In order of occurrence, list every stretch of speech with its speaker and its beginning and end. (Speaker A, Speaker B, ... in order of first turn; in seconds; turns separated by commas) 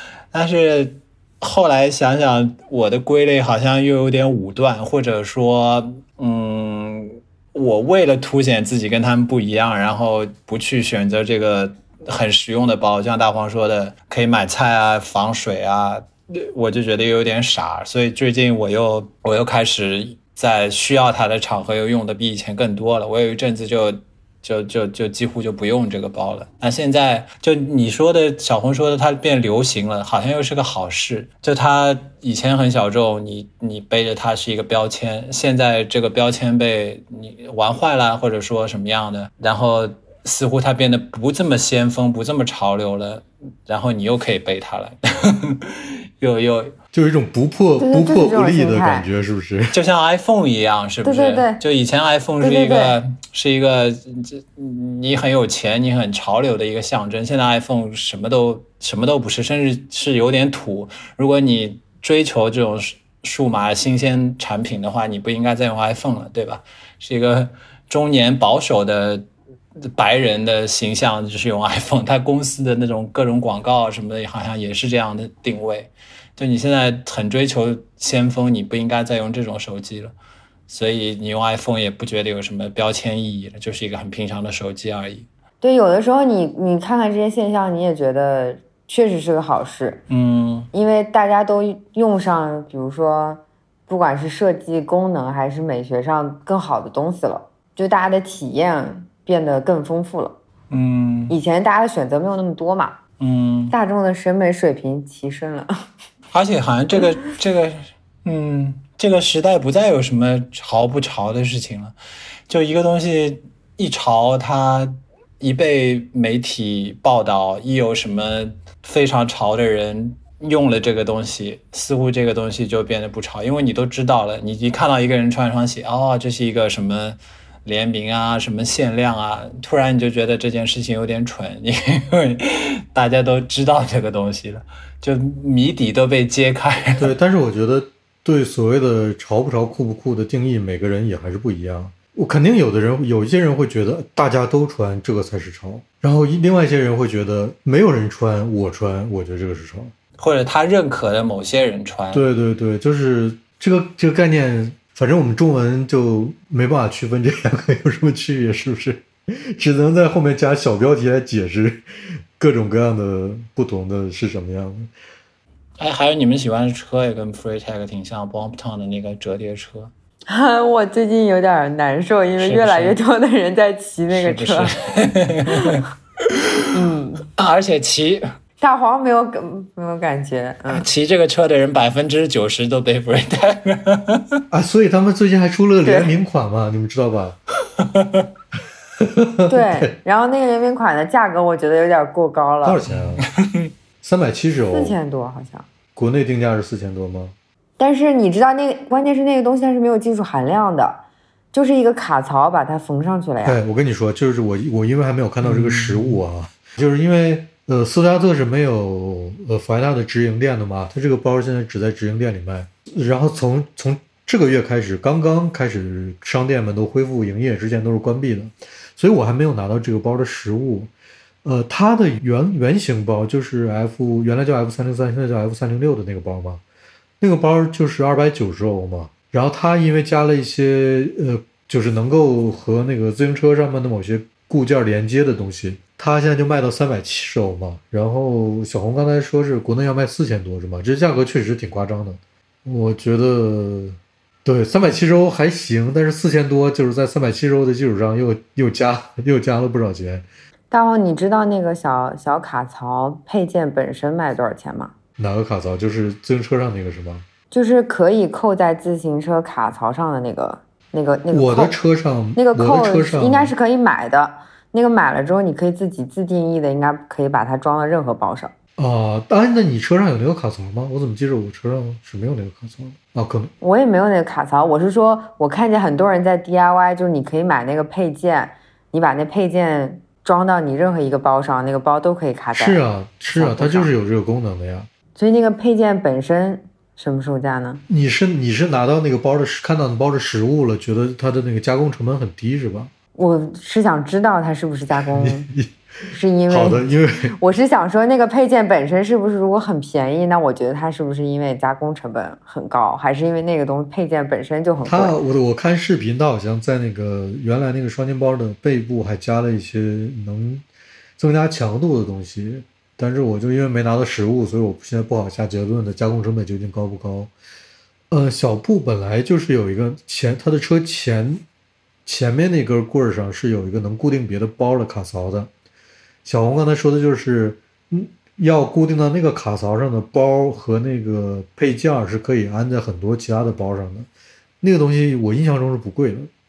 Speaker A: 0.3-46.8, Speaker B: 46.9-49.8, Speaker C: 47.8-49.1, Speaker A: 49.7-69.2, Speaker C: 51.0-51.6, Speaker C: 52.4-53.0, Speaker A: 69.8-80.1, Speaker A: 80.7-85.3, Speaker C: 85.6-90.0, Speaker A: 90.1-90.7, Speaker C: 90.7-100.4, Speaker A: 100.7-101.3, Speaker C: 101.3-103.0, Speaker A: 103.2-103.7, Speaker C: 103.7-105.7, Speaker A: 106.3-111.9, Speaker A: 112.5-137.1, Speaker B: 137.0-149.9, Speaker A: 150.2-152.3, Speaker B: 152.1-161.8, Speaker B: 162.4-164.9, Speaker A: 165.8-169.9, Speaker C: 170.3-174.7, Speaker A: 172.4-173.0, Speaker A: 174.1-176.6, Speaker C: 175.4-175.8, Speaker C: 176.7-177.2, Speaker A: 177.4-178.2, Speaker C: 178.6-180.8, Speaker A: 180.7-184.4, Speaker B: 184.5-187.4, Speaker C: 185.8-186.2, Speaker A: 187.8-188.2, Speaker B: 189.0-189.9, Speaker C: 189.5-192.8, Speaker B: 192.6-193.2, Speaker A: 192.9-193.7, Speaker B: 194.0-195.0, Speaker C: 194.7-195.7, Speaker B: 195.9-197.3, Speaker C: 197.8-203.6, Speaker B: 203.4-220.9, Speaker A: 205.4-206.2, Speaker B: 221.4-226.6, Speaker B: 227.2-250.2, Speaker C: 250.7-254.9, Speaker B: 255.2-257.2, Speaker C: 257.5-261.8, Speaker B: 261.3-263.5, Speaker C: 262.3-268.5, Speaker B: 268.8-273.5, Speaker C: 273.6-282.8, Speaker B: 282.5-284.9, Speaker C: 283.3-283.9, Speaker C: 285.1-287.8, Speaker B: 287.9-292.9, Speaker C: 293.1-295.5, Speaker B: 294.9-295.7, Speaker C: 296.1-305.2, Speaker B: 296.5-297.3, Speaker B: 304.8-310.6, Speaker B: 311.2-317.3, Speaker B: 318.1-321.4, Speaker B: 322.1-325.5, Speaker B: 326.2-334.1, Speaker B: 334.6-336.3